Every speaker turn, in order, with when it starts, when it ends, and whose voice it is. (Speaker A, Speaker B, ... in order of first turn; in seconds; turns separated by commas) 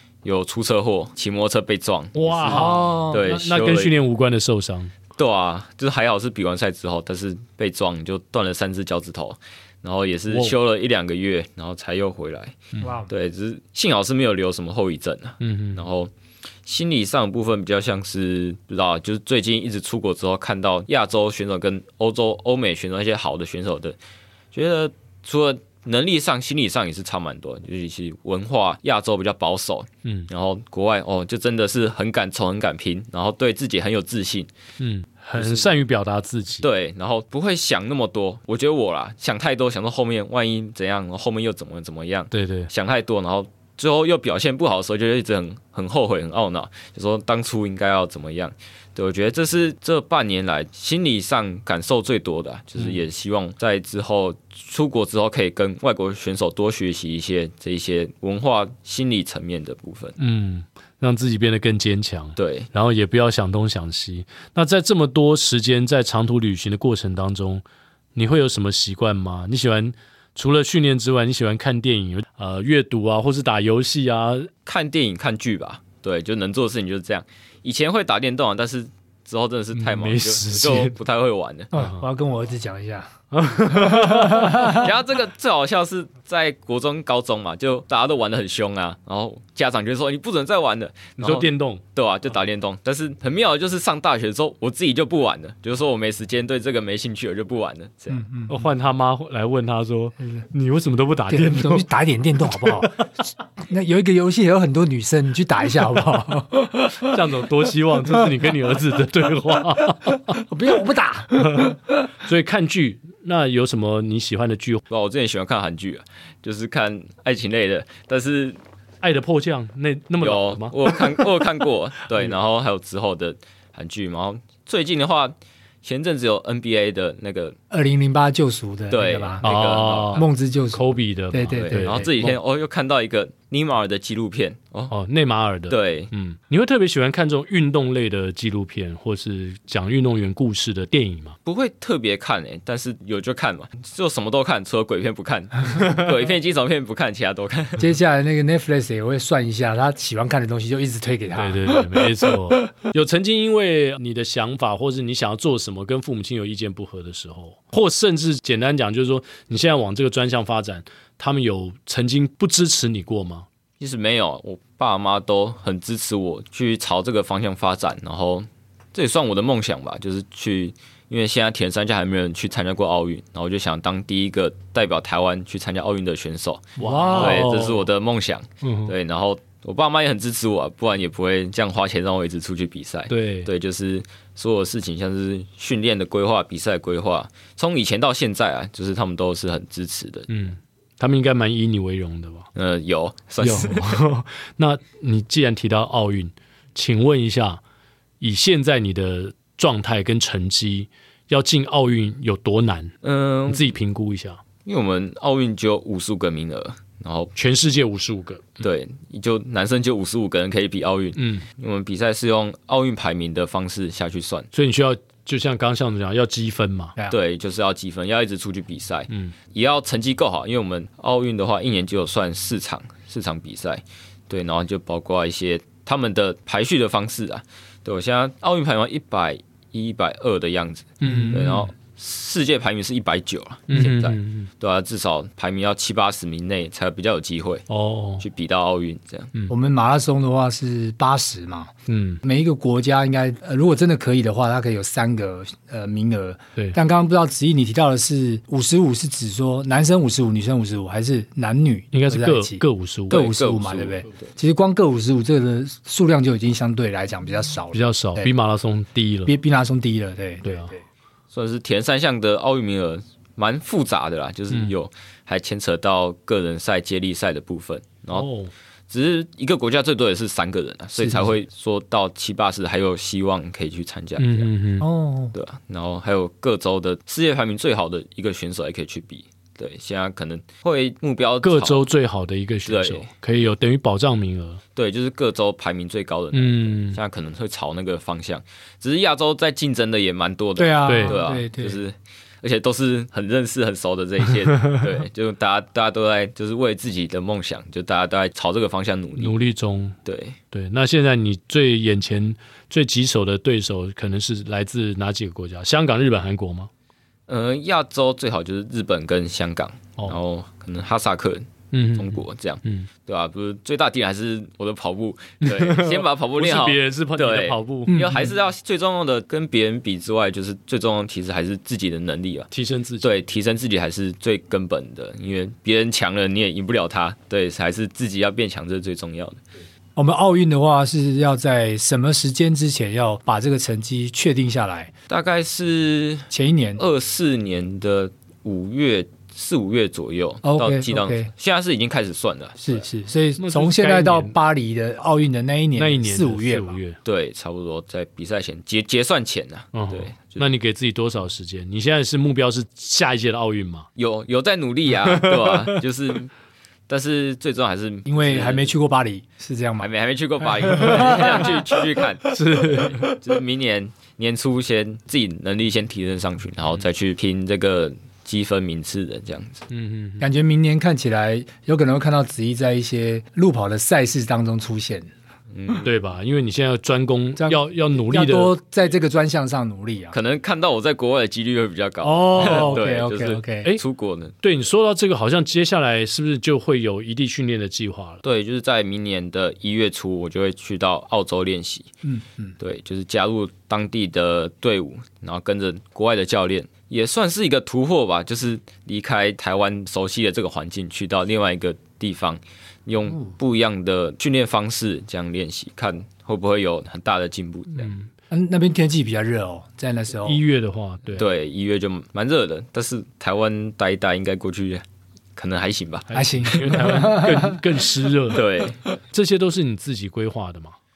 Speaker A: 0.2-3.9, Speaker B: 2.1-4.9, Speaker C: 2.5-3.2, Speaker A: 5.2-16.1, Speaker B: 10.3-10.5, Speaker C: 12.8-13.1, Speaker B: 15.4-15.8, Speaker A: 16.6-24.0, Speaker A: 24.5-34.5, Speaker B: 34.8-36.6, Speaker A: 35.4-35.8, Speaker A: 36.6-60.2, Speaker B: 42.3-42.7, Speaker B: 60.2-67.6, Speaker A: 62.4-62.7, Speaker B: 68.1-74.5, Speaker A: 74.6-81.7, Speaker B: 79.8-81.0, Speaker C: 81.7-83.1, Speaker B: 81.8-82.0, Speaker B: 83.3-84.8, Speaker C: 83.7-84.9, Speaker A: 84.6-98.2, Speaker B: 91.2-91.8, Speaker C: 98.1-98.6, Speaker B: 98.5-101.9, Speaker C: 101.3-102.9, Speaker B: 102.5-102.9, Speaker C: 103.6-107.1, Speaker B: 107.0-110.4, Speaker C: 110.3-111.8, Speaker B: 111.4-114.8, Speaker A: 114.9-118.6, Speaker B: 119.0-120.8, Speaker A: 120.2-127.6, Speaker C: 127.7-129.5, Speaker A: 128.9-130.3, Speaker B: 129.4-132.3, Speaker C: 130.1-132.1, Speaker A: 131.6-134.9, Speaker B: 134.9-141.4, Speaker A: 135.7-136.1, Speaker A: 141.4-147.9, Speaker C: 147.8-152.0, Speaker B: 151.3-163.5, Speaker A: 163.8-190.3, Speaker B: 176.8-177.8, Speaker C: 176.8-177.5, Speaker B: 178.6-178.9, Speaker B: 183.1-183.5, Speaker B: 190.3-192.5, Speaker A: 192.6-194.0, Speaker B: 193.4-197.6, Speaker B: 198.2-202.9, Speaker A: 203.0-203.6, Speaker B: 203.5-204.4, Speaker A: 204.6-207.3, Speaker B: 207.3-208.6, Speaker A: 208.6-214.5, Speaker B: 211.2-211.4, Speaker B: 214.5-216.9, Speaker A: 217.1-237.7, Speaker B: 231.0-231.7, Speaker C: 231.0-231.5, Speaker B: 233.7-234.5, Speaker B: 237.7-238.2, Speaker A: 238.2-239.3, Speaker C: 239.5-258.3, Speaker B: 241.9-242.2, Speaker B: 251.9-253.3, Speaker A: 253.1-254.3, Speaker B: 257.7-259.3, Speaker C: 259.3-260.8, Speaker B: 260.4-260.7, Speaker A: 261.3-268.3, Speaker B: 268.1-268.5, Speaker A: 268.9-274.5, Speaker C: 271.0-271.3, Speaker B: 274.2-274.9, Speaker C: 274.8-275.4, Speaker A: 275.3-281.9, Speaker B: 281.4-284.6, Speaker A: 282.6-283.1, Speaker A: 284.8-299.4, Speaker B: 286.3-287.0, Speaker C: 290.6-291.8, Speaker B: 290.9-291.2, Speaker B: 299.2-300.0, Speaker A: 300.1-300.4, Speaker B: 300.5-306.7, Speaker A: 307.3-322.5, Speaker B: 311.7-312.9, Speaker B: 315.4-318.0, Speaker C: 317.9-318.2, Speaker B: 322.5-323.1, Speaker A: 323.0-329.4, Speaker C: 330.0-334.9, Speaker A: 335.1-342.8, Speaker C: 336.3-336.8, Speaker C: 340.4-341.3, Speaker C: 342.6-346.8, Speaker B: 343.4-344.4, Speaker B: 345.8-347.0, Speaker A: 347.1-350.5, Speaker B: 349.7-353.9, Speaker A: 354.0-356.3, Speaker B: 355.1-355.8, Speaker A: 356.9-358.7, Speaker C: 358.1-359.9, Speaker A: 359.8-369.6, Speaker C: 360.6-361.8, Speaker B: 360.8-361.2, Speaker B: 362.3-363.1, Speaker B: 369.7-370.3, Speaker C: 370.2-375.1, Speaker A: 375.5-375.9, Speaker B: 375.8-378.6, Speaker C: 377.4-380.2, Speaker A: 380.1-384.4, Speaker C: 382.0-383.7, Speaker B: 382.3-382.8, Speaker B: 384.4-388.2, Speaker A: 388.2-391.9, Speaker C: 392.0-392.6, Speaker A: 392.6-407.9, Speaker B: 407.8-408.1, Speaker C: 408.3-410.4, Speaker B: 410.2-411.3, Speaker A: 411.1-414.8, Speaker A: 415.4-416.1, Speaker B: 416.1-418.4, Speaker C: 416.1-417.6, Speaker A: 418.3-418.8, Speaker B: 419.1-420.8